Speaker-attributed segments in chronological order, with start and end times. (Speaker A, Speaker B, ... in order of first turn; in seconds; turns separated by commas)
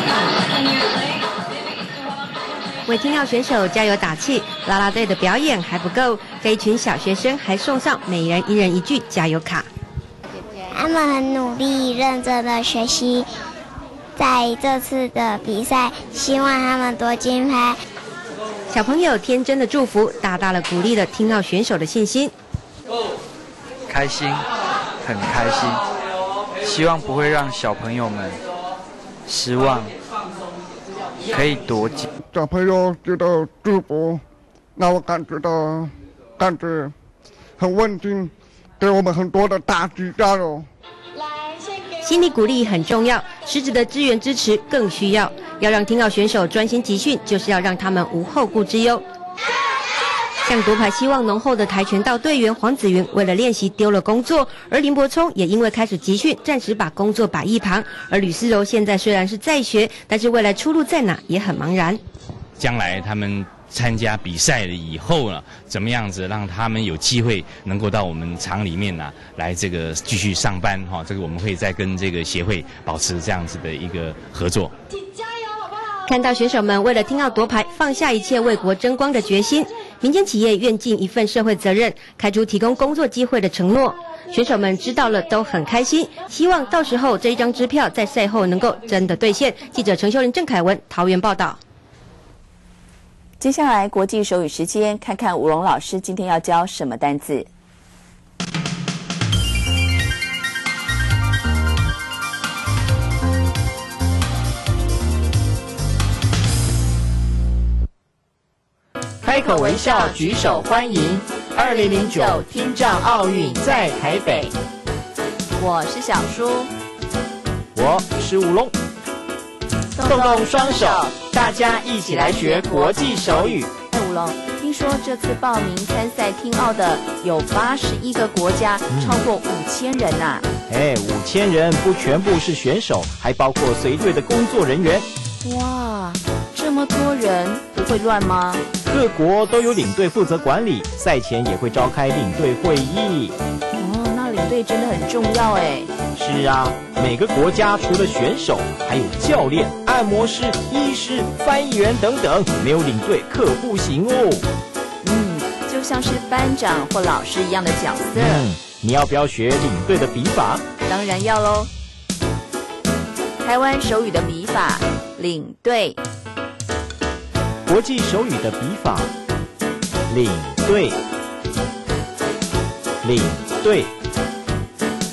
Speaker A: 2.9-9.7, Speaker B: 10.7-13.3, Speaker B: 14.2-17.8, Speaker A: 18.7-22.3, Speaker C: 23.9-24.5, Speaker C: 25.0-25.8, Speaker C: 26.6-28.4, Speaker C: 29.3-29.9, Speaker C: 31.3-32.1, Speaker D: 32.2-34.2, Speaker D: 34.8-36.9, Speaker D: 37.6-40.7, Speaker A: 42.0-49.0, Speaker A: 50.5-62.0, Speaker E: 62.6-74.7, Speaker A: 76.1-91.6, Speaker F: 93.4-97.5, Speaker G: 109.2-114.5, Speaker F: 109.3-110.9, Speaker F: 111.6-114.5, Speaker F: 115.6-116.7, Speaker G: 117.8-118.7, Speaker F: 119.9-130.5, Speaker G: 120.0-123.7, Speaker G: 128.9-129.2, Speaker G: 130.7-135.1, Speaker F: 135.4-138.7, Speaker G: 138.9-143.3, Speaker F: 143.8-145.9, Speaker G: 146.2-154.5, Speaker F: 155.0-158.5, Speaker G: 158.2-160.6, Speaker F: 160.8-161.7, Speaker F: 163.4-166.0, Speaker G: 167.7-169.1, Speaker G: 170.1-171.0, Speaker G: 173.0-173.9